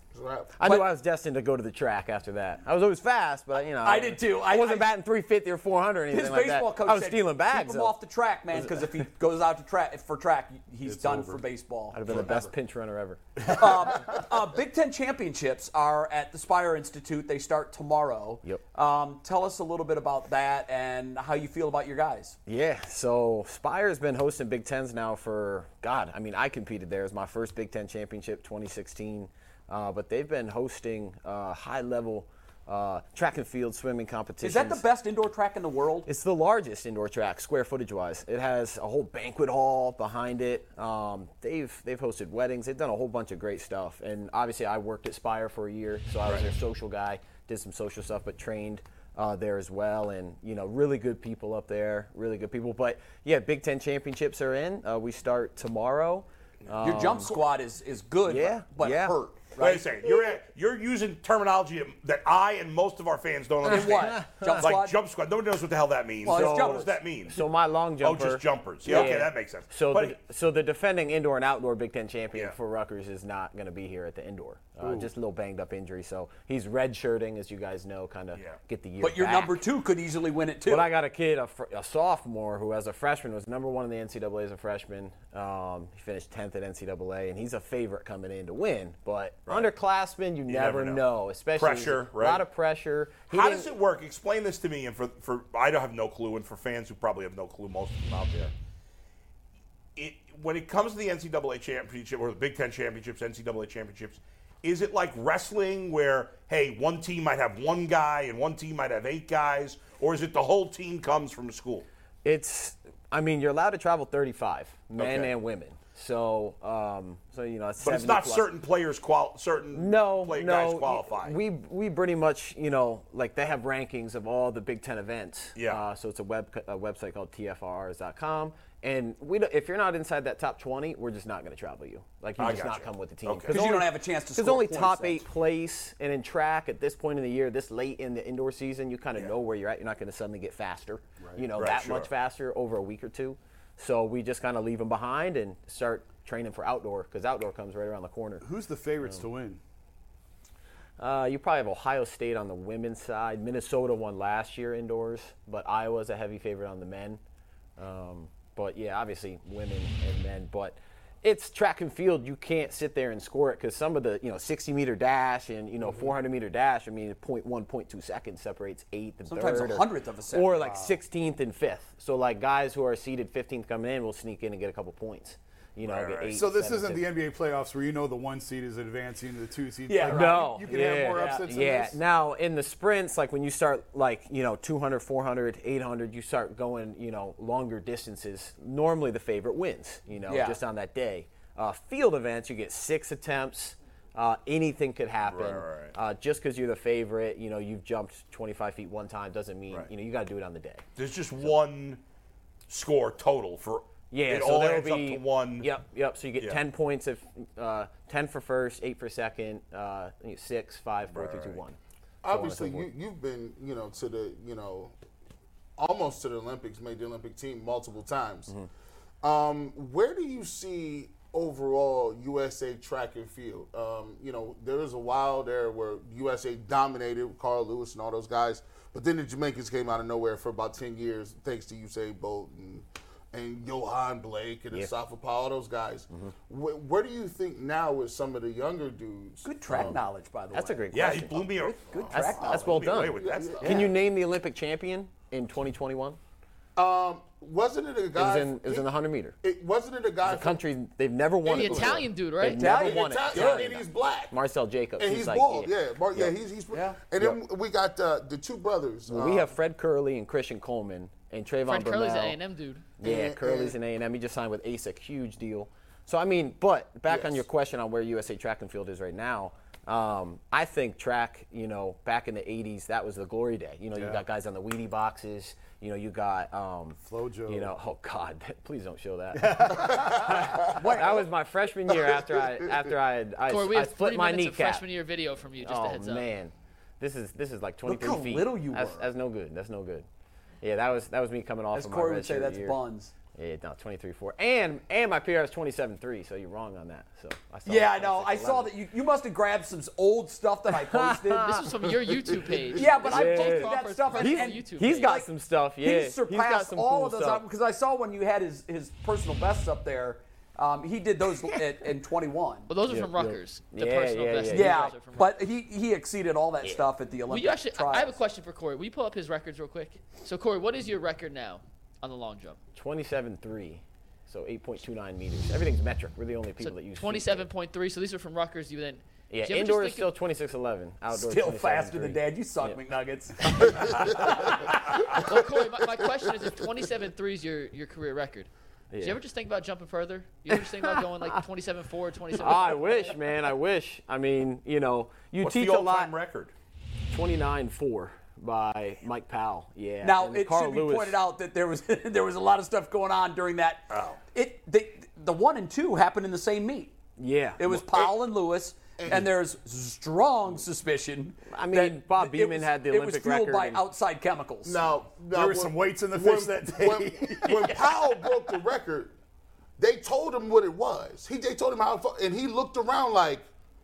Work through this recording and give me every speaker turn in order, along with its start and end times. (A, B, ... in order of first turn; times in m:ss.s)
0:00.1-0:00.5 A
0:00.6-0:08.0 B
0:00.6-0:00.9 C
0:03.8-0:04.9 C
0:06.1-0:12.5 C
0:08.5-0:08.9 B
0:10.8-0:11.4 D
0:11.9-0:14.0 B
0:13.4-0:22.4 C
0:22.5-0:34.8 B
0:34.4-0:36.1 C
0:36.0-0:57.4 B
0:56.8-0:59.9 C
0:58.2-0:59.2 B
0:59.6-1:07.4 E
1:03.6-1:05.0 C
1:03.7-1:04.6 B
1:06.2-1:06.9 C
1:06.2-1:19.6 B
1:08.0-1:10.2 E
1:08.8-1:09.2 C
1:19.0-1:20.9 C
1:20.6-1:33.7 B
1:30.5-1:31.0 E
1:31.6-1:32.4 E
1:33.3-1:38.5 E
1:40.0-1:51.9 E
1:52.2-1:58.5 B
1:55.0-1:55.3 E
1:57.8-2:01.4 E
1:59.7-2:28.4 B
2:05.6-2:05.8 E
2:12.4-2:13.6 E
2:13.5-2:15.2 C
2:21.6-2:22.1 E
2:28.4-2:29.6 D
2:31.0-2:37.2 B
2:37.8-2:57.0 B
2:49.3-2:50.6 C
2:50.5-2:51.0 D
2:55.8-2:56.4 E
2:56.3-3:02.0 D
2:59.9-3:01.5 C
3:00.0-3:20.8 B
3:10.3-3:10.6 C
3:15.2-3:15.9 E
3:21.0-3:22.0 E
3:22.7-3:25.7 E
3:24.1-3:32.9 B
3:31.1-3:31.6 E
3:32.2-3:34.9 A
3:35.8-3:38.5 A
3:39.2-4:00.0 A
3:59.4-4:02.8 C
4:00.5-4:01.5 B
4:00.9-4:03.9 E
4:02.1-4:06.2 B
4:02.2-4:04.0 A
4:06.8-4:08.9 A
4:08.2-4:09.4 B
4:09.4-4:10.6 A
4:10.2-4:16.3 B
4:11.4-4:12.1 A
4:11.4-4:12.7 F
4:12.4-4:13.6 C
4:12.6-4:14.4 A
4:15.0-4:19.5 A
4:16.7-4:17.0 C
4:19.1-4:22.4 B
4:21.6-4:23.0 F
4:23.0-4:44.8 B
4:23.0-4:23.7 A
4:27.1-4:27.4 A
4:34.0-4:34.2 D
4:37.0-4:37.7 D
4:39.4-4:39.9 D
4:40.7-4:41.2 C
4:41.9-4:42.4 A
4:43.5-4:46.3 F
4:45.6-4:50.0 B
4:47.8-4:49.1 C
4:50.6-4:52.8 B
4:51.7-4:53.1 C
4:53.3-4:58.7 B
4:57.6-5:01.6 C
5:00.8-5:01.6 B
5:01.4-5:05.1 F
5:02.7-5:05.3 C
5:03.0-5:07.4 B
5:05.8-5:12.7 C
5:12.7-5:15.4 F
5:12.9-5:14.9 B
5:14.5-5:18.2 C
5:17.3-5:22.6 F
5:22.7-5:27.5 B
5:26.6-5:30.1 F
5:29.3-5:32.8 B
5:31.1-5:35.2 C
5:34.5-5:38.5 F
5:38.9-5:39.2 B
5:39.0-5:43.2 F
5:40.5-5:41.4 B
5:42.3-5:46.1 B
5:45.4-5:46.5 E
5:47.1-5:51.2 B
5:50.0-5:57.0 C
5:53.9-5:54.2 E
5:57.2-5:58.1 B
5:57.6-6:04.9 C
5:59.0-5:59.3 A
6:01.5-6:03.8 B
6:04.6-6:09.1 A
6:05.3-6:08.3 D
6:09.8-6:13.4 A